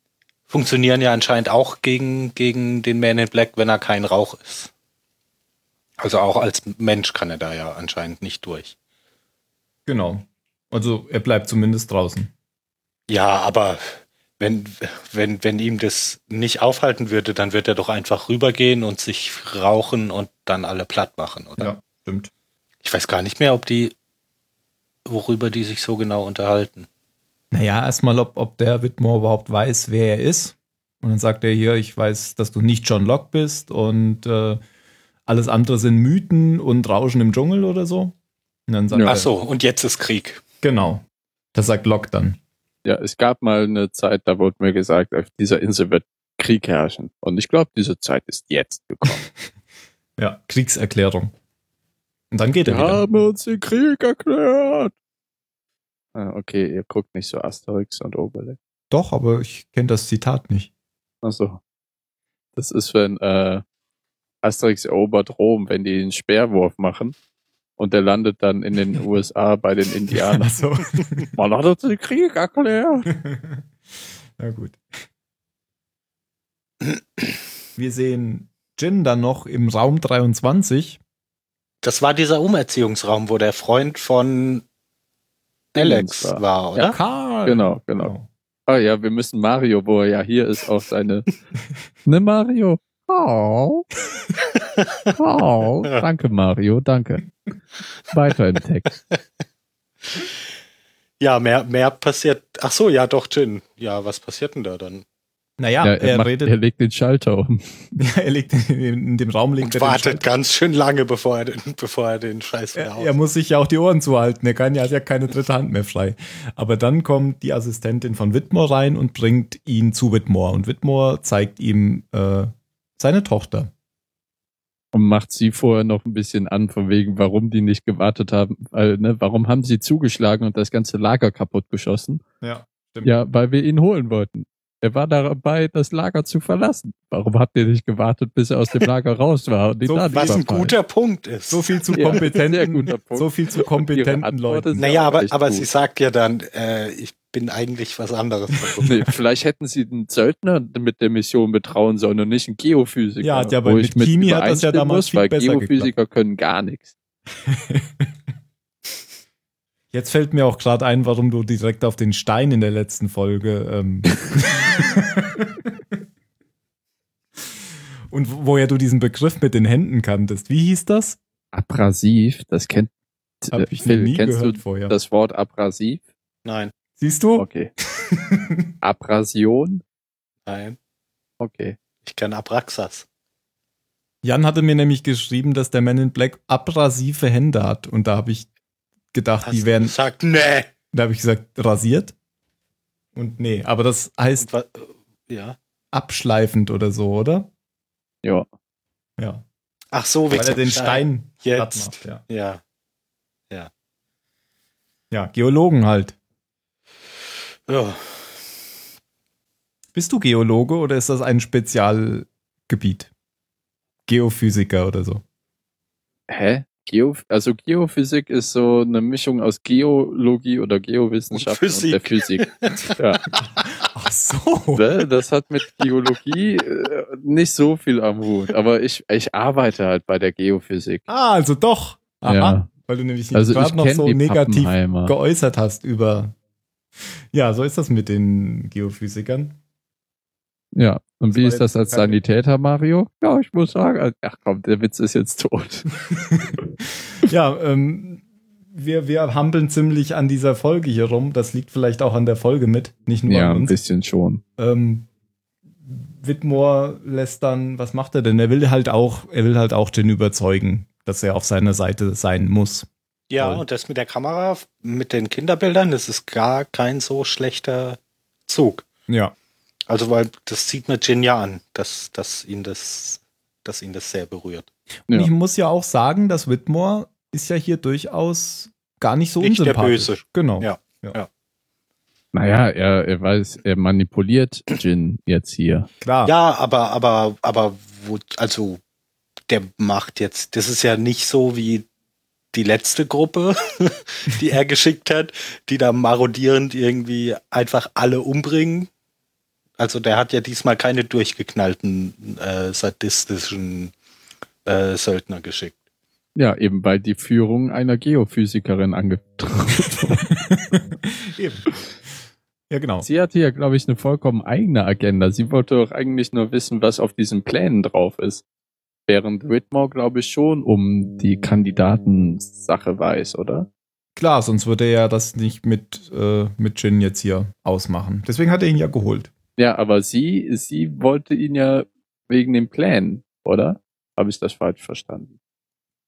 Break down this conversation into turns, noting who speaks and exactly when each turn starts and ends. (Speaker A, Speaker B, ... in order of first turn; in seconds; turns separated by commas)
Speaker A: 0.5-4.7, Speaker A: 6.0-8.8, Speaker B: 9.9-12.3, Speaker A: 13.1-21.7, Speaker B: 21.6-22.3, Speaker A: 22.8-23.9, Speaker A: 25.1-26.9, Speaker B: 27.5-34.6, Speaker B: 35.3-38.1, Speaker B: 38.7-39.3, Speaker A: 39.0-40.4, Speaker B: 40.6-42.4, Speaker C: 42.9-49.3, Speaker B: 50.2-51.3, Speaker B: 52.3-53.0, Speaker C: 52.7-54.9, Speaker C: 56.1-58.6, Speaker B: 58.9-60.7, Speaker C: 61.2-61.6, Speaker C: 62.6-63.6, Speaker C: 64.4-67.2, Speaker C: 67.8-70.6, Speaker B: 70.3-71.3, Speaker C: 71.3-73.1, Speaker B: 73.1-73.6, Speaker B: 74.4-74.8, Speaker B: 77.8-81.0, Speaker A: 81.8-84.7, Speaker C: 85.8-86.9, Speaker A: 85.8-87.0, Speaker B: 86.9-88.3, Speaker C: 87.5-88.1, Speaker C: 88.7-91.3, Speaker C: 92.1-93.9, Speaker A: 94.5-95.1, Speaker C: 95.2-97.3, Speaker C: 98.0-98.9, Speaker A: 101.2-105.0, Speaker B: 105.6-106.5, Speaker C: 105.8-107.9, Speaker B: 108.0-110.2, Speaker A: 109.6-113.1, Speaker B: 112.8-123.7, Speaker C: 124.9-132.2, Speaker B: 132.4-133.1, Speaker C: 133.0-140.7, Speaker B: 139.9-140.7, Speaker A: 140.1-142.2, Speaker B: 141.5-144.8, Speaker C: 141.9-145.7, Speaker A: 144.8-149.0, Speaker C: 148.8-156.9, Speaker B: 153.2-155.9, Speaker B: 157.5-158.1, Speaker B: 159.9-165.7, Speaker B: 168.1-171.2, Speaker C: 171.5-172.9, Speaker C: 173.4-176.0, Speaker B: 173.5-174.9, Speaker A: 176.4-176.7, Speaker B: 177.0-178.7, Speaker C: 177.4-177.7, Speaker C: 178.8-179.8, Speaker A: 180.5-180.8, Speaker C: 181.4-181.8, Speaker A: 182.0-183.1, Speaker B: 184.2-188.5, Speaker B: 189.1-189.9, Speaker A: 189.4-190.7, Speaker B: 190.9-192.2, Speaker B: 193.2-194.5, Speaker A: 194.4-195.6, Speaker B: 195.9-197.5, Speaker B: 199.2-199.4, Speaker A: 199.9-202.6, Speaker B: 200.3-202.2, Speaker B: 205.1-206.2, Speaker A: 207.7-208.3, Speaker B: 209.9-213.1, Speaker B: 214.1-215.2, Speaker C: 216.3-223.2, Speaker A: 221.3-223.4, Speaker B: 223.8-224.9, Speaker C: 224.8-231.1, Speaker B: 231.1-236.3, Speaker C: 232.3-232.7, Speaker C: 233.3-235.2, Speaker B: 237.3-239.6, Speaker C: 240.8-245.9, Speaker B: 241.3-242.2, Speaker B: 246.3-246.6, Speaker B: 247.2-253.8, Speaker C: 253.3-254.4, Speaker B: 254.6-255.1, Speaker B: 255.8-262.9, Speaker A: 263.3-268.9, Speaker B: 269.1-269.4, Speaker A: 269.9-274.7, Speaker B: 275.1-281.2, Speaker A: 279.4-281.3, Speaker C: 282.3-285.9, Speaker B: 286.0-286.3, Speaker A: 286.2-288.8, Speaker A: 289.5-291.9, Speaker A: 292.5-298.9, Speaker A: 299.8-303.9, Speaker A: 304.6-305.8, Speaker C: 306.4-310.3, Speaker B: 310.7-311.7, Speaker B: 312.7-313.1, Speaker C: 313.0-318.4, Speaker C: 319.1-323.7, Speaker B: 324.2-329.3, Speaker C: 329.6-335.4